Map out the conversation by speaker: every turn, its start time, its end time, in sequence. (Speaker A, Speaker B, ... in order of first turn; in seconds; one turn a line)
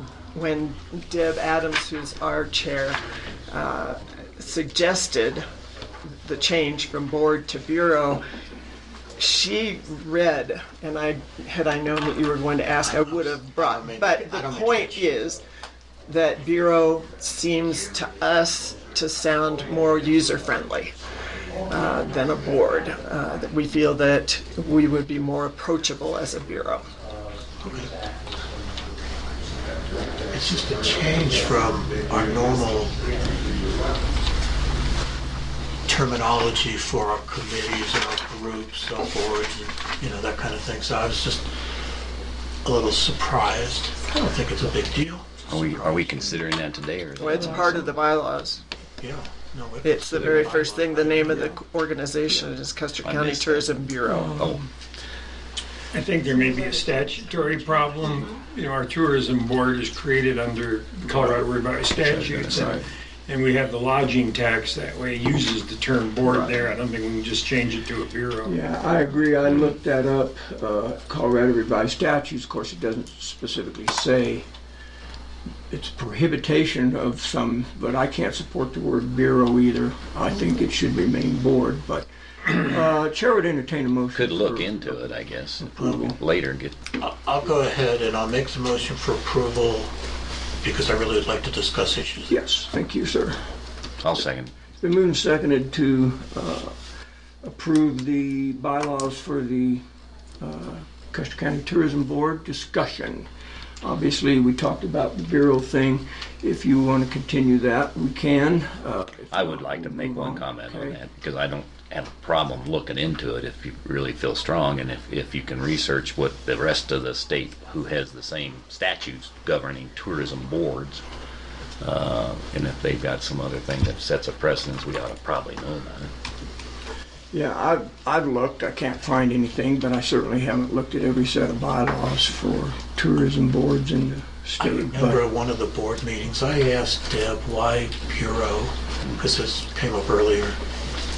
Speaker A: 0.3-5.4
Speaker A: 6.2-8.2
Speaker A: 9.2-15.4
Speaker B: 12.8-15.1
Speaker A: 16.1-20.9
Speaker A: 21.7-26.9
Speaker B: 27.6-27.9
Speaker B: 30.3-32.9
Speaker B: 35.9-41.5
Speaker B: 42.6-46.1
Speaker C: 45.5-47.9
Speaker A: 47.2-48.6
Speaker B: 49.0-51.6
Speaker A: 49.8-54.5
Speaker C: 50.1-50.5
Speaker C: 53.0-54.6
Speaker D: 54.1-54.6
Speaker E: 55.9-68.5
Speaker A: 56.2-58.3
Speaker C: 61.0-61.4
Speaker C: 62.0-62.9
Speaker C: 66.2-66.6
Speaker D: 68.4-74.4
Speaker D: 75.7-86.2
Speaker C: 84.1-86.8
Speaker B: 87.0-89.9
Speaker B: 90.6-92.3
Speaker D: 92.3-93.4
Speaker C: 94.0-94.5
Speaker D: 94.8-96.7
Speaker D: 97.4-99.8
Speaker D: 100.4-103.3
Speaker D: 103.8-111.0
Speaker C: 109.3-121.0
Speaker C: 121.8-126.1
Speaker D: 127.3-135.2
Speaker B: 134.6-140.6